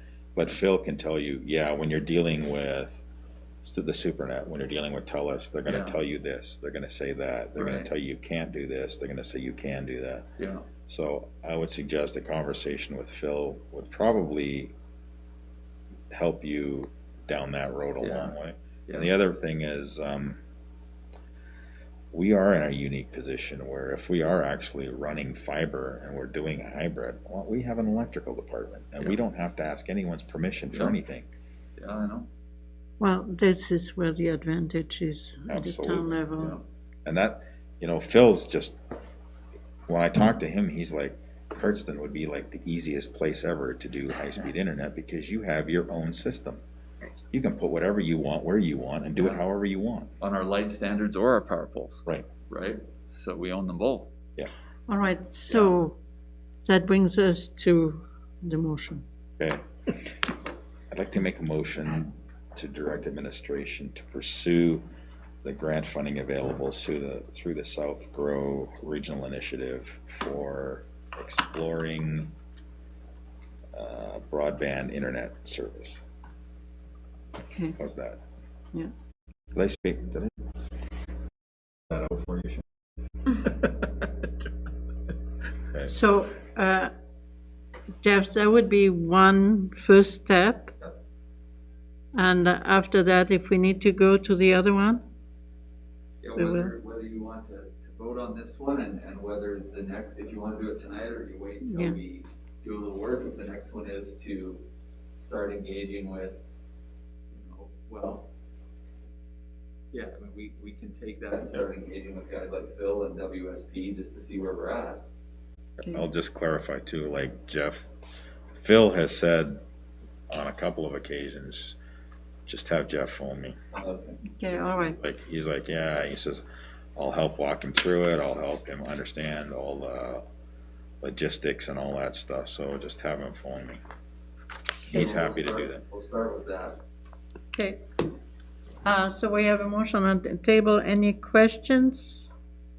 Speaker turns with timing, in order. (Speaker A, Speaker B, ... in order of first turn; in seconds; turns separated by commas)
Speaker A: 0.3-3.0, Speaker A: 3.6-10.2, Speaker B: 5.7-6.0, Speaker B: 7.6-7.9, Speaker B: 10.4-10.6, Speaker A: 10.9-14.7, Speaker A: 16.1-20.4, Speaker B: 18.0-18.4, Speaker A: 22.1-31.3, Speaker B: 30.7-31.0, Speaker B: 31.8-32.3, Speaker C: 33.0-36.6, Speaker A: 35.5-36.2, Speaker A: 37.0-38.8, Speaker A: 39.9-46.6, Speaker A: 47.3-50.1, Speaker B: 49.1-49.4, Speaker B: 50.2-54.1, Speaker C: 54.9-56.0, Speaker B: 55.5-55.8, Speaker C: 56.6-59.0, Speaker A: 60.9-64.8, Speaker A: 65.4-72.3, Speaker A: 73.7-76.0, Speaker C: 77.5-77.8, Speaker A: 77.8-78.2, Speaker A: 79.5-80.3, Speaker A: 81.9-82.6, Speaker C: 85.9-86.9, Speaker C: 88.0-90.7, Speaker C: 92.2-95.0, Speaker B: 96.2-104.6, Speaker C: 96.4-96.7, Speaker C: 101.6-102.0, Speaker B: 105.2-106.4, Speaker B: 107.3-108.3, Speaker B: 109.9-115.0, Speaker A: 115.9-117.9, Speaker A: 118.6-119.6, Speaker A: 120.3-121.8, Speaker A: 122.5-123.6, Speaker B: 123.7-124.6, Speaker C: 124.4-125.0, Speaker A: 125.0-126.4, Speaker A: 127.0-130.2, Speaker A: 131.0-133.8, Speaker A: 134.9-135.8, Speaker B: 134.9-136.8, Speaker C: 137.5-137.8, Speaker C: 138.8-142.3